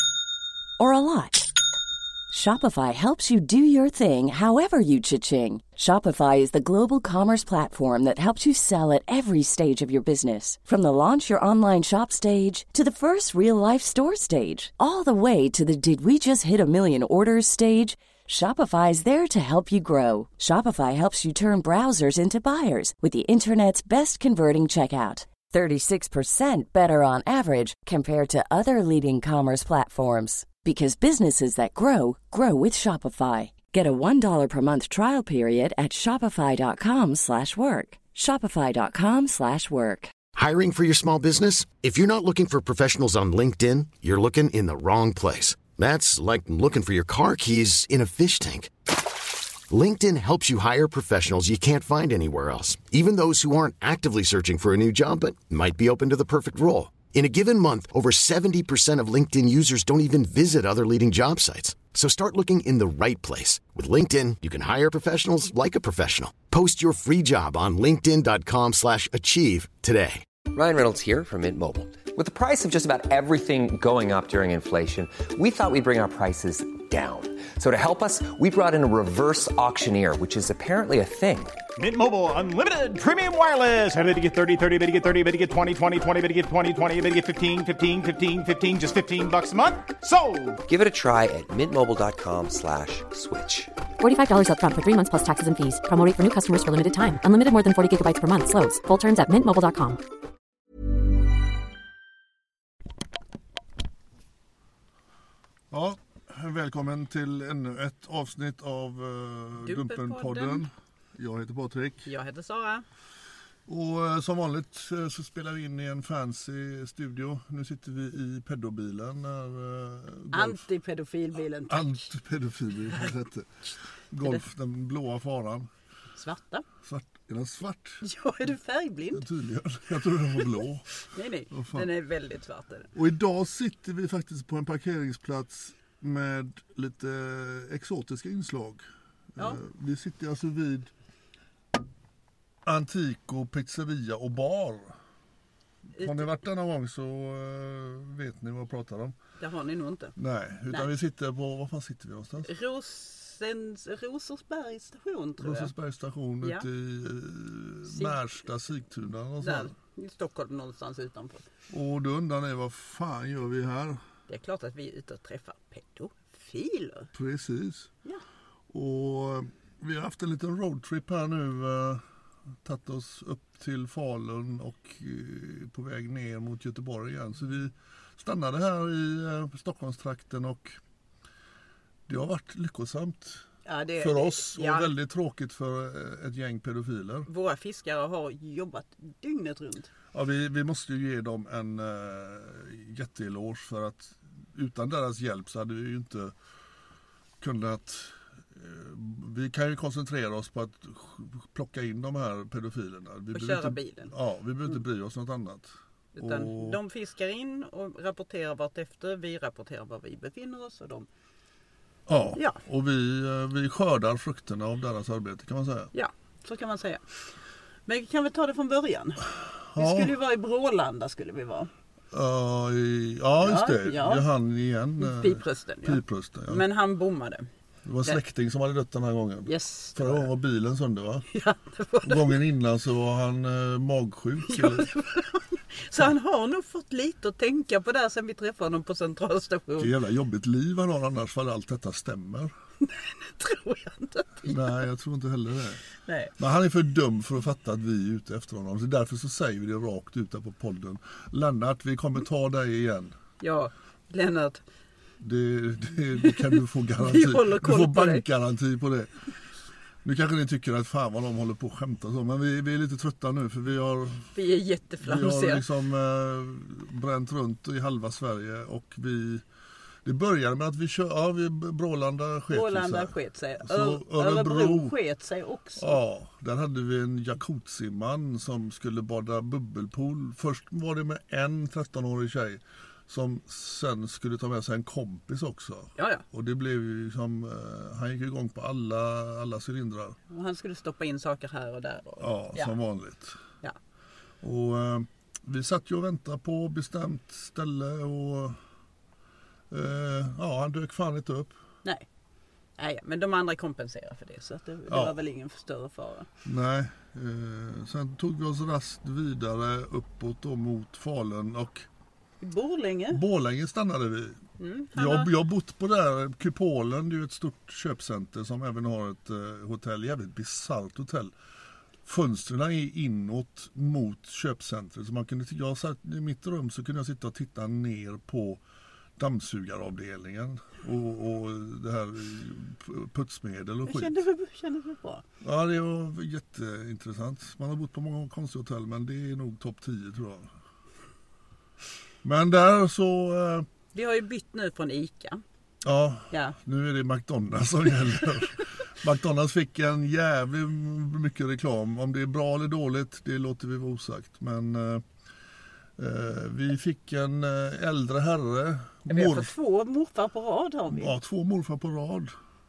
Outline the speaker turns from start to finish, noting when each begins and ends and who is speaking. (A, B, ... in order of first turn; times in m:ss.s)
0:00.8-0:01.5 A
0:02.3-0:40.1 A
0:40.4-0:48.7 B
0:49.7-1:10.2 B
1:10.5-1:21.6 C
1:21.8-1:30.6 D
1:30.6-1:33.7 C
1:34.0-1:40.0 E
1:45.7-1:52.1 F
1:49.6-1:50.6 G
1:52.0-1:52.8 G
1:53.7-2:00.6 F
2:00.3-2:02.0 G
2:01.7-2:03.5 F
2:04.1-2:05.7 F
2:06.2-2:06.6 G
2:06.8-2:08.0 F
2:08.0-2:09.2 G
2:09.1-2:10.9 F
2:11.1-2:12.9 G
2:11.5-2:11.8 F
2:12.9-2:20.9 F
2:22.6-2:24.9 F
2:26.0-2:29.1 F
2:26.0-2:26.3 G
2:29.4-2:30.2 G
2:30.2-2:32.5 F
2:32.4-2:35.7 G
2:35.4-2:39.7 F
2:37.8-2:38.2 G
2:39.4-2:41.4 G
2:41.7-2:44.0 F
2:44.3-2:47.1 G
2:47.1-2:47.9 F
2:48.7-2:52.0 F
2:52.6-3:00.8 F
3:02.1-3:03.4 F
3:03.6-3:04.9 G
3:04.0-3:07.3 F
3:07.3-3:09.9 G
3:10.1-3:16.3 F
3:17.4-3:26.8 F
3:23.3-3:24.2 G
3:26.1-3:31.1 G
3:32.1-3:35.9 F
3:32.3-3:32.6 G
3:35.9-3:37.2 G
3:37.9-3:41.7 G
3:39.7-3:40.1 F
3:42.1-3:46.6 F
3:43.4-3:44.2 G
3:45.0-3:47.5 G
3:47.8-3:51.3 F
3:49.4-3:50.3 G
3:51.3-3:52.4 G
3:52.0-3:54.9 F
3:54.5-3:59.9 G
3:59.8-4:02.5 F
4:02.8-4:04.8 G
4:04.4-4:05.8 F
4:06.1-4:06.3 G
4:06.4-4:13.1 F
4:13.4-4:14.6 G
4:15.2-4:19.1 F
4:16.2-4:18.2 G
4:20.0-4:24.3 F
4:24.3-4:25.6 G
4:25.0-4:29.4 F
4:30.0-4:35.0 F
4:32.5-4:36.0 G
4:35.8-4:50.2 F
4:46.0-4:46.2 G
4:50.3-4:52.7 G
4:52.2-4:53.4 F
4:54.4-4:58.6 F
4:59.7-5:01.5 F
5:02.8-5:06.3 G
5:04.9-5:05.2 F
5:06.4-5:11.9 F
5:12.4-5:13.2 G
5:13.1-5:14.4 F
5:14.6-5:15.3 G
5:14.9-5:21.3 F
5:22.0-5:28.6 F
5:29.2-5:34.2 F
5:33.8-5:35.2 G
5:35.4-5:40.5 F
5:42.2-5:43.7 F
5:43.9-5:45.4 G
5:45.8-5:55.0 F
5:46.3-5:46.6 G
5:56.0-5:59.5 F
5:59.1-6:01.1 G
6:00.9-6:02.3 F